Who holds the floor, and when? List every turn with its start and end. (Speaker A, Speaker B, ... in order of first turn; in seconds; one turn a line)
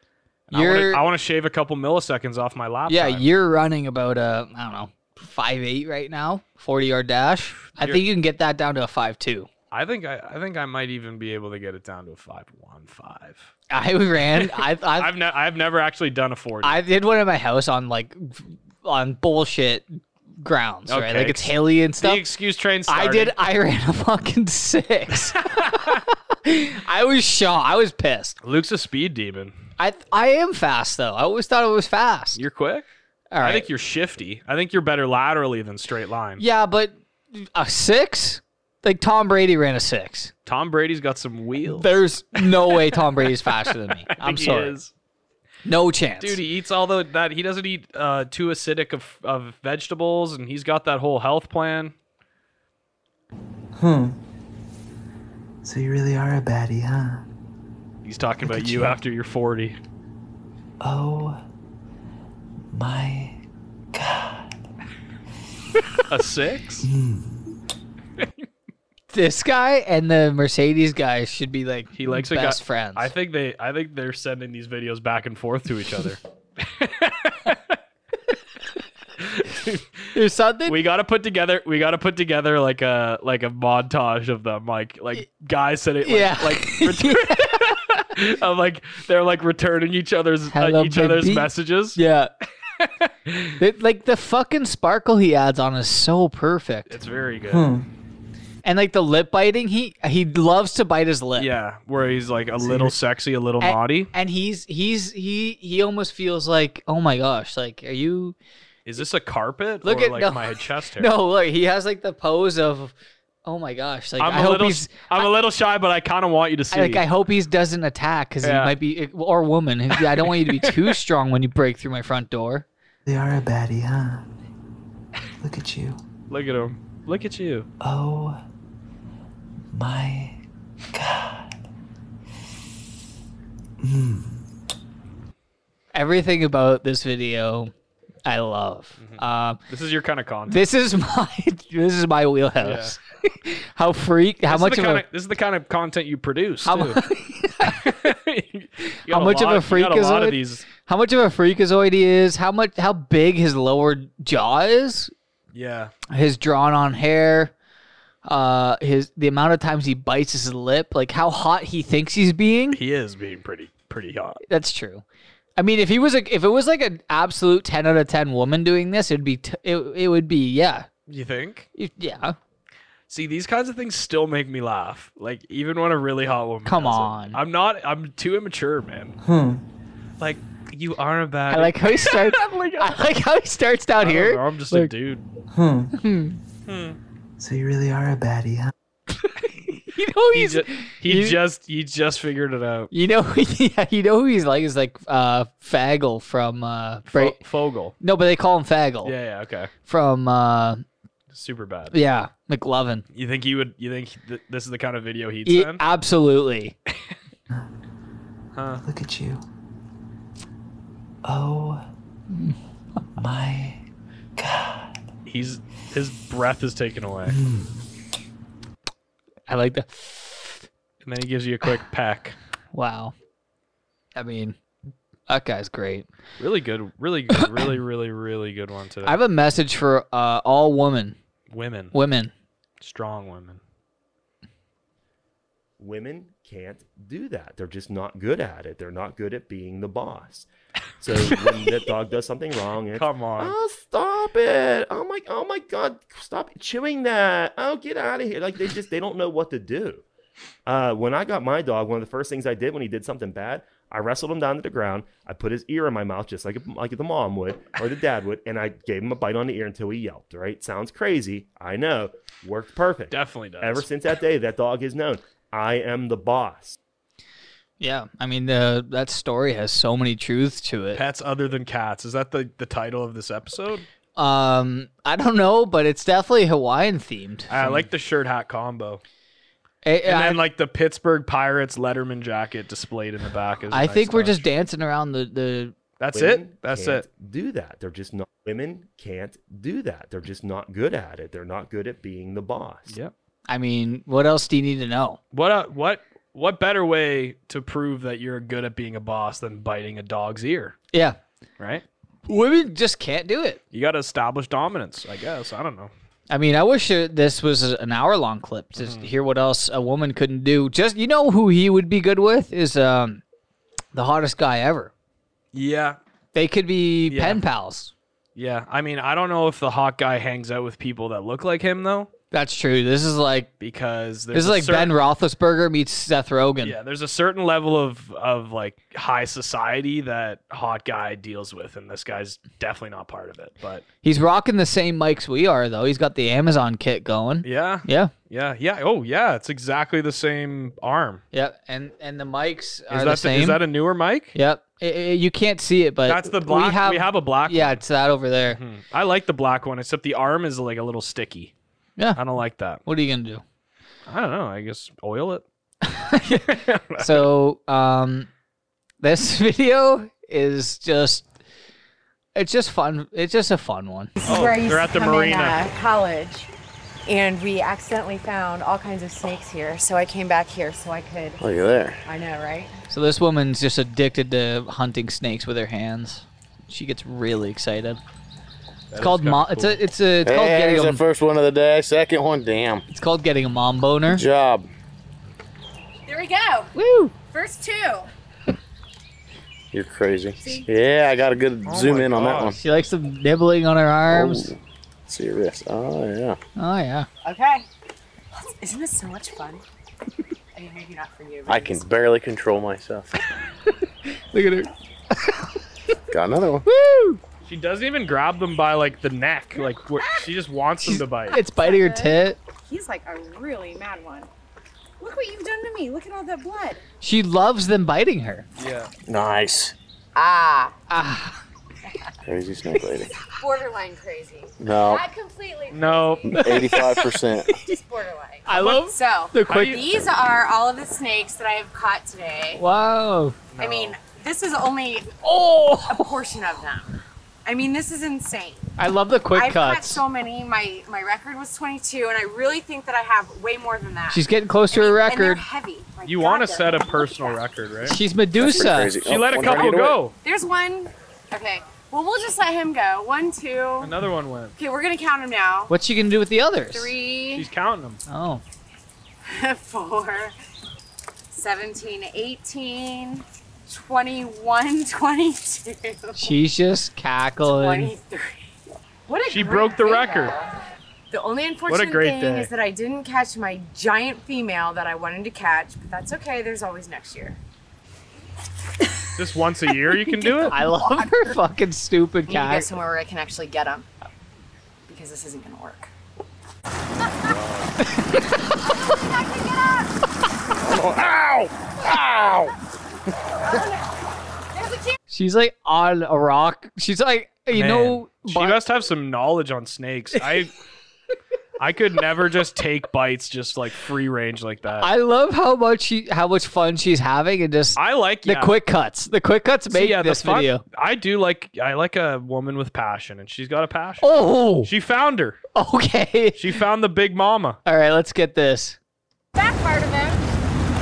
Speaker A: 0.5-3.3
Speaker B: 0.5-1.1
Speaker B: 2.9-9.5
Speaker A: 7.8-8.0
Speaker A: 9.7-13.5
Speaker B: 13.7-15.2
Speaker A: 14.3-16.8
Speaker B: 16.6-22.2
Speaker A: 20.9-23.4
Speaker B: 22.9-28.4
Speaker A: 25.4-26.0
Speaker A: 28.4-29.5
Speaker B: 29.8-32.4
Speaker A: 32.4-32.9
Speaker B: 33.3-33.7
Speaker A: 33.4-36.4
Speaker B: 36.4-40.3
Speaker A: 40.5-44.9
Speaker B: 41.6-44.8
Speaker B: 45.6-46.4
Speaker A: 46.2-52.0
Speaker C: 53.8-54.2
Speaker C: 55.6-57.2
Speaker A: 58.0-59.8
Speaker C: 58.4-59.0
Speaker C: 60.8-61.4
Speaker C: 62.7-63.4
Speaker C: 63.9-64.6
Speaker A: 66.1-66.9
Speaker C: 66.8-67.5
Speaker B: 69.1-73.1
Speaker A: 71.9-77.8
Speaker A: 79.2-92.0
Speaker B: 80.1-80.8
Speaker B: 86.0-87.8
Speaker B: 90.5-92.3
Speaker A: 92.8-93.6
Speaker B: 93.6-97.0
Speaker A: 96.9-97.7
Speaker C: 97.5-97.9
Speaker B: 98.6-101.5
Speaker A: 101.4-104.1
Speaker C: 102.6-102.9
Speaker B: 103.6-108.4
Speaker A: 108.8-111.1
Speaker B: 109.8-115.3
Speaker A: 114.2-117.1
Speaker B: 116.7-122.7
Speaker A: 118.4-118.8
Speaker A: 120.0-121.0
Speaker C: 123.0-124.2
Speaker C: 125.4-126.0
Speaker A: 126.3-127.7
Speaker C: 127.8-128.4
Speaker C: 129.7-130.4
Speaker C: 130.9-131.6
Speaker C: 133.8-134.4
Speaker B: 135.9-137.7
Speaker B: 138.2-139.6
Speaker A: 139.0-140.6
Speaker B: 140.5-145.1
Speaker A: 142.6-143.0
Speaker A: 144.5-147.0
Speaker B: 146.7-147.9
Speaker A: 147.6-150.7
Speaker B: 148.9-155.1
Speaker A: 155.5-155.9
Speaker B: 156.1-157.5
Speaker B: 158.2-162.8
Speaker A: 162.7-164.4
Speaker B: 164.5-165.0
Speaker B: 165.6-170.9
Speaker A: 171.1-171.7
Speaker B: 171.8-172.4
Speaker A: 173.1-179.2
Speaker B: 176.7-177.4
Speaker C: 179.2-179.6
Speaker A: 180.2-183.0
Speaker B: 181.5-184.9
Speaker A: 184.0-185.2
Speaker C: 185.5-185.9
Speaker B: 185.9-186.4
Speaker A: 186.7-187.0
Speaker C: 187.4-188.7
Speaker B: 189.5-191.4
Speaker A: 190.3-192.9
Speaker B: 192.9-197.4
Speaker A: 197.1-197.9
Speaker B: 198.0-199.2
Speaker A: 199.0-199.7
Speaker B: 199.9-200.8
Speaker A: 201.3-201.9
Speaker B: 201.9-203.0
Speaker A: 203.1-205.8
Speaker B: 205.5-206.8
Speaker A: 208.5-208.8
Speaker C: 208.8-209.4
Speaker C: 211.2-211.9
Speaker C: 213.2-213.8
Speaker C: 214.4-215.0
Speaker A: 215.3-217.4
Speaker C: 217.3-217.8
Speaker B: 219.5-220.6
Speaker A: 221.0-222.4
Speaker B: 222.7-223.1
Speaker B: 224.2-224.6
Speaker B: 225.3-226.1
Speaker A: 226.4-229.2
Speaker B: 227.3-227.7
Speaker B: 229.0-231.2
Speaker A: 231.5-231.9
Speaker B: 231.9-232.3
Speaker A: 232.8-233.6
Speaker D: 235.8-240.5
Speaker D: 241.0-250.1
Speaker A: 242.9-243.6
Speaker D: 250.7-266.8
Speaker A: 263.1-263.9
Speaker B: 267.8-271.0
Speaker A: 270.9-273.9
Speaker B: 274.2-277.9
Speaker A: 277.5-279.0
Speaker B: 279.8-280.4
Speaker A: 280.0-284.4
Speaker B: 283.7-285.8
Speaker A: 286.0-287.1
Speaker D: 286.1-293.0
Speaker A: 292.9-293.1
Speaker B: 293.5-295.2
Speaker A: 295.3-300.8
Speaker B: 300.9-301.2
Speaker A: 301.6-301.8
Speaker B: 302.3-303.6
Speaker A: 303.7-305.9
Speaker B: 306.3-313.2
Speaker A: 308.8-309.1
Speaker B: 313.9-314.9
Speaker A: 315.5-316.0
Speaker B: 316.3-317.9
Speaker A: 317.1-317.4
Speaker A: 318.4-322.1
Speaker B: 322.3-323.5
Speaker A: 323.6-324.9
Speaker B: 324.3-326.8
Speaker A: 326.6-333.8
Speaker B: 334.0-338.1
Speaker A: 337.4-341.2
Speaker B: 341.3-343.6
Speaker A: 342.9-344.4
Speaker B: 344.3-348.6
Speaker A: 346.1-347.8
Speaker A: 348.5-351.5
Speaker A: 352.1-352.8
Speaker B: 352.9-353.4
Speaker A: 354.1-355.4
Speaker B: 355.9-358.3
Speaker A: 356.2-357.3
Speaker B: 359.0-361.3
Speaker B: 362.4-364.1
Speaker E: 364.2-366.5
Speaker A: 364.3-365.6
Speaker E: 367.1-371.4
Speaker F: 371.4-372.0
Speaker E: 372.1-372.8
Speaker B: 372.9-378.0
Speaker A: 378.9-379.8
Speaker B: 379.0-381.0
Speaker F: 380.2-382.8
Speaker B: 382.9-384.2
Speaker F: 384.1-384.7
Speaker E: 386.1-386.7
Speaker B: 386.8-387.1
Speaker E: 387.3-388.1
Speaker F: 389.7-392.6
Speaker E: 390.4-390.7
Speaker A: 391.7-392.6
Speaker B: 392.6-394.5
Speaker F: 394.1-396.4
Speaker B: 396.6-397.1
Speaker E: 397.2-397.7
Speaker E: 398.4-399.6
Speaker E: 400.6-401.9
Speaker F: 401.5-403.1
Speaker B: 404.1-405.5
Speaker F: 406.1-406.6
Speaker B: 406.6-407.2
Speaker A: 407.4-411.4
Speaker E: 410.0-410.3
Speaker B: 410.8-412.4
Speaker E: 411.3-414.3
Speaker E: 415.0-416.8
Speaker B: 417.0-418.5
Speaker A: 418.6-418.9
Speaker F: 419.1-419.7
Speaker E: 420.1-420.7
Speaker B: 420.9-421.4
Speaker F: 422.3-423.1
Speaker E: 423.3-426.5
Speaker F: 424.6-425.1
Speaker A: 425.7-426.4
Speaker F: 426.3-427.5
Speaker B: 426.4-427.0
Speaker B: 427.5-427.8
Speaker E: 427.6-432.6
Speaker B: 428.5-429.8
Speaker A: 428.6-428.8
Speaker A: 429.5-429.8
Speaker B: 432.6-433.4
Speaker A: 433.5-434.0
Speaker E: 433.6-435.2
Speaker B: 435.2-436.2
Speaker E: 435.9-436.9
Speaker E: 437.4-438.8
Speaker B: 438.8-440.0
Speaker E: 439.3-447.4
Speaker B: 444.1-445.4
Speaker A: 446.1-448.0
Speaker B: 447.9-448.9
Speaker F: 448.4-450.1
Speaker A: 449.1-450.1
Speaker E: 450.2-453.9
Speaker A: 453.8-454.5
Speaker E: 454.6-455.7
Speaker B: 455.7-456.9
Speaker E: 456.7-457.5
Speaker A: 457.3-458.0
Speaker B: 458.1-458.4
Speaker E: 459.3-460.4
Speaker E: 461.3-466.3
Speaker B: 466.2-467.9
Speaker E: 467.4-468.5
Speaker E: 469.1-470.5
Speaker A: 469.3-470.4
Speaker E: 471.1-477.4
Speaker A: 471.7-472.5
Speaker A: 479.2-480.6
Speaker B: 480.4-482.7
Speaker E: 482.3-483.9
Speaker E: 484.9-485.9
Speaker F: 487.3-487.7
Speaker B: 487.9-488.3
Speaker E: 488.7-489.9
Speaker F: 490.6-492.5
Speaker E: 493.5-493.8
Speaker E: 494.5-495.0
Speaker B: 495.1-498.6
Speaker A: 497.5-500.5
Speaker A: 501.6-504.9
Speaker B: 504.8-510.6
Speaker A: 507.8-508.6
Speaker A: 509.7-514.1
Speaker B: 514.0-514.7
Speaker A: 514.6-515.4
Speaker B: 515.5-516.5
Speaker A: 516.4-517.6
Speaker B: 517.7-518.8
Speaker E: 519.4-520.4